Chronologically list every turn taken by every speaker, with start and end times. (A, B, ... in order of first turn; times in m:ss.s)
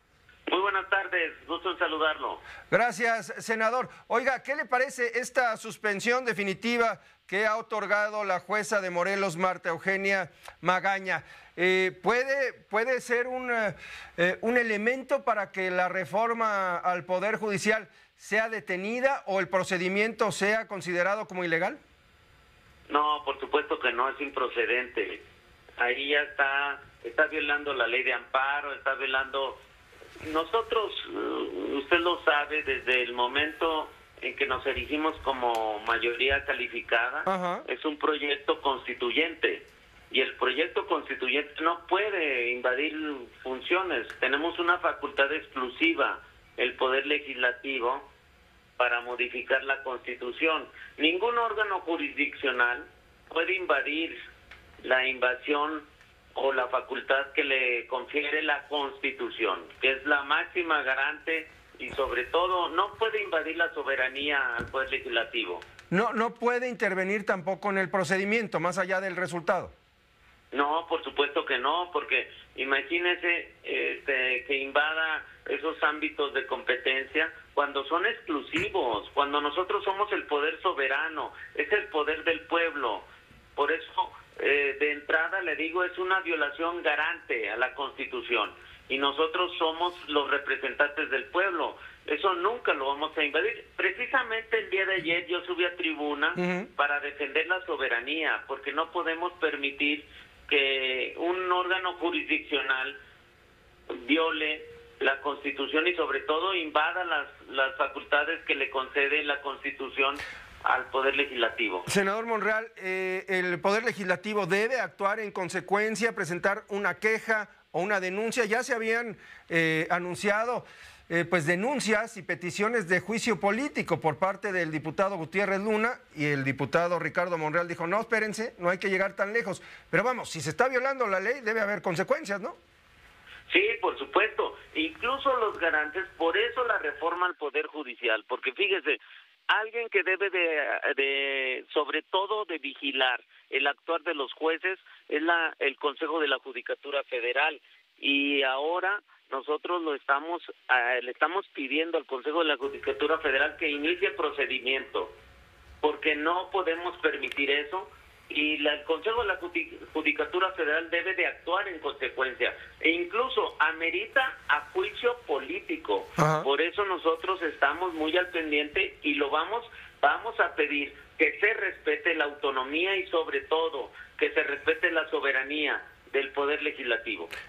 0:00.5-0:02.4 A
0:02.7-0:21.8 B
0:22.9-0:25.2 A
0:25.8-0:29.6 A
0:30.2-0:48.1 A
0:37.2-0:37.6 B
0:48.8-0:54.2 A
0:54.8-1:05.6 A
1:05.9-1:09.7 B
1:10.5-1:43.0 A
1:36.4-1:36.7 B
1:43.9-1:51.9 A
1:51.9-2:12.6 B
2:13.5-2:35.1 A
2:35.8-2:57.3 A
2:46.2-2:46.5 B